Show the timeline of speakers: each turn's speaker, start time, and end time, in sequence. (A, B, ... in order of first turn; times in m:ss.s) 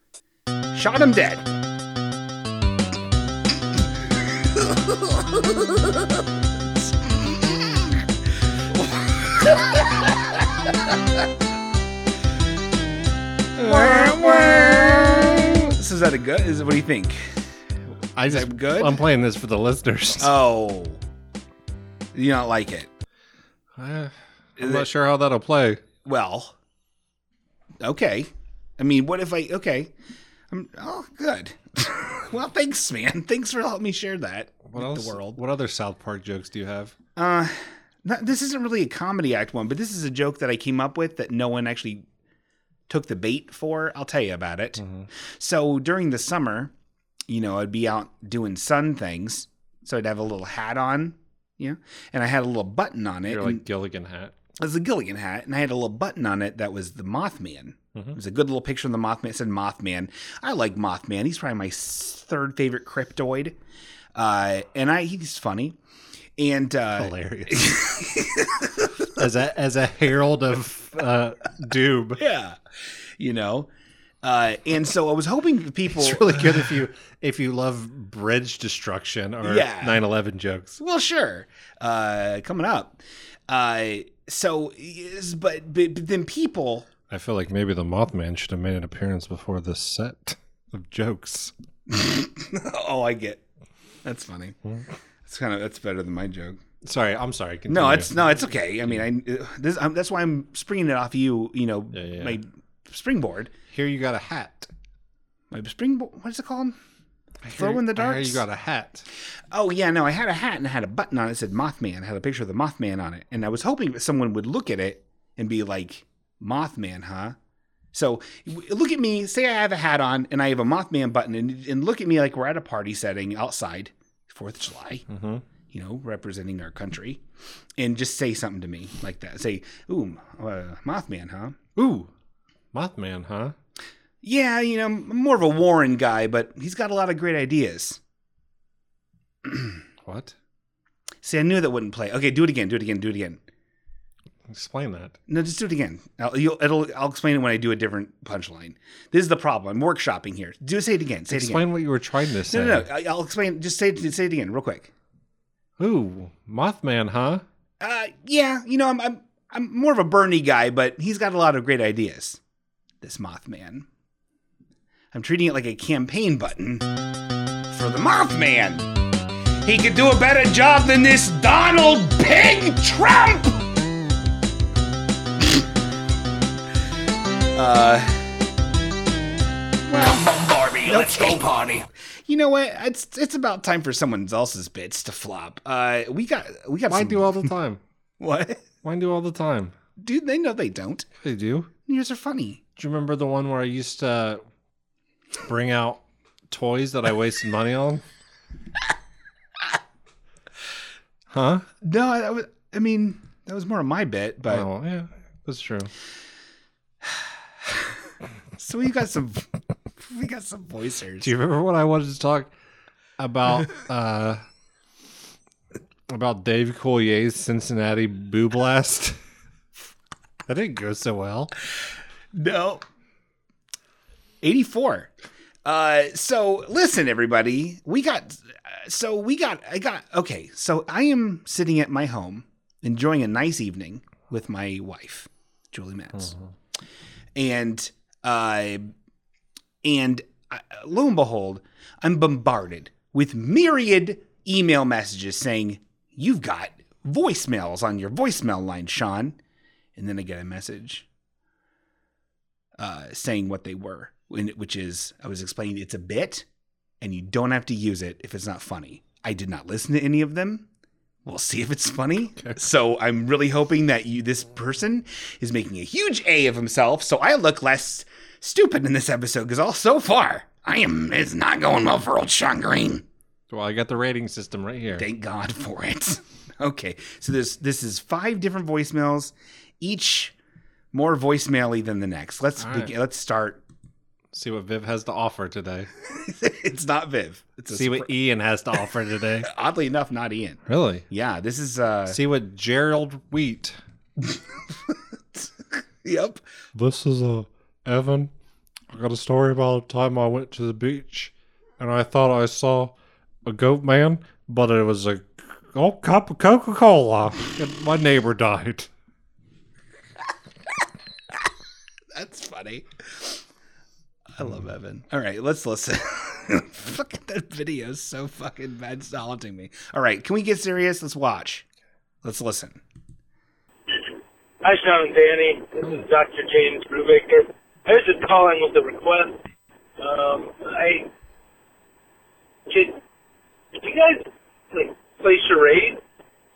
0:00.7-0:01.5 A
0:08.7-0:09.6 A
0:13.6-0:17.2 A
0:13.7-0:15.6 B
0:18.2-0:20.3 B
0:18.3-0:19.0 A
0:20.2-0:21.0 A
0:22.1-0:22.9 A
0:23.8-0:25.8 B
0:24.6-0:24.9 A
0:26.0-0:26.6 A
0:27.8-0:29.9 A
0:30.5-0:35.4 A
0:34.7-0:37.0 B
0:37.2-0:42.0 A
0:42.9-0:44.8 A
0:44.8-0:45.1 B
0:45.4-0:46.7 A
0:47.3-0:53.6 A
0:53.3-0:54.4 B
0:54.6-1:03.6 A
1:04.2-1:05.8 A
1:06.4-1:08.9 A
1:07.0-1:07.8 B
1:09.2-1:12.2 B
1:12.2-1:12.6 A
1:13.2-1:13.7 A
1:14.2-1:16.7 A
1:15.9-1:20.8 B
1:19.4-1:20.0 A
1:20.8-1:26.9 A
1:27.1-1:31.5 B
1:31.9-1:33.4 A
1:34.0-1:34.6 A
1:35.2-1:36.6 A
1:36.8-1:39.0 B
1:37.7-1:43.5 A
1:41.9-1:42.4 B
1:43.7-1:44.7 B
1:45.5-1:46.8 A
1:47.4-1:49.1 B
1:47.6-1:48.4 A
1:49.5-1:57.4 A
1:57.9-2:05.0 A
2:05.1-2:05.4 B
2:05.7-2:07.2 A
2:07.8-2:11.6 A
2:11.8-2:12.1 B
2:12.7-2:13.6 B
2:14.2-2:18.0 A
2:20.0-2:20.4 B
2:21.2-2:23.4 A
2:24.5-2:25.2 B
2:25.3-2:31.6 A
2:31.3-2:32.9 B
2:32.5-2:34.9 A
2:35.8-2:37.4 B
2:37.8-2:42.4 A
2:43.0-2:43.9 A
2:45.1-2:46.9 A
2:47.7-2:48.9 A
2:49.6-2:53.6 A
2:57.6-2:58.3 A
2:59.9-3:07.5 A
3:06.9-3:07.8 B
3:08.2-3:08.6 A
3:08.8-3:09.7 B
3:10.0-3:11.1 A
3:11.2-3:11.7 B
3:11.9-3:12.6 A
3:12.8-3:14.4 B
3:15.4-3:18.0 B
3:21.3-3:21.7 B
3:21.8-3:24.7 A
3:24.5-3:25.9 B
3:27.0-3:27.8 A
3:28.6-3:29.5 A
3:30.0-3:31.3 A
3:31.2-3:32.5 B
3:33.2-3:34.4 B
3:36.1-3:39.2 B
3:40.5-3:41.5 B
3:42.3-3:42.8 A
3:44.4-3:45.1 A
3:45.6-3:56.3 A
3:56.2-3:56.5 B
3:57.4-3:58.9 A
3:59.8-4:09.4 A
4:10.0-4:11.0 A
4:12.8-4:16.5 A
4:17.0-4:20.7 A
4:21.2-4:33.0 A
4:33.5-4:35.1 B
4:35.0-4:40.3 A
4:40.9-4:43.6 A
4:42.6-4:42.9 B
4:44.3-4:45.9 B
4:46.2-4:48.1 A
4:47.7-4:49.5 B
4:49.5-4:52.2 A
4:50.7-4:51.1 B
4:52.1-4:53.8 B
4:54.9-4:55.5 A
4:56.0-4:56.4 A
4:56.8-4:58.3 B
4:58.9-5:02.9 B
5:03.4-5:08.9 B
5:12.2-5:13.4 A
5:14.4-5:21.7 A
5:22.2-5:22.8 A
5:24.6-5:29.4 C
5:30.0-5:31.1 C
5:32.7-5:33.0 C
5:33.8-5:36.0 C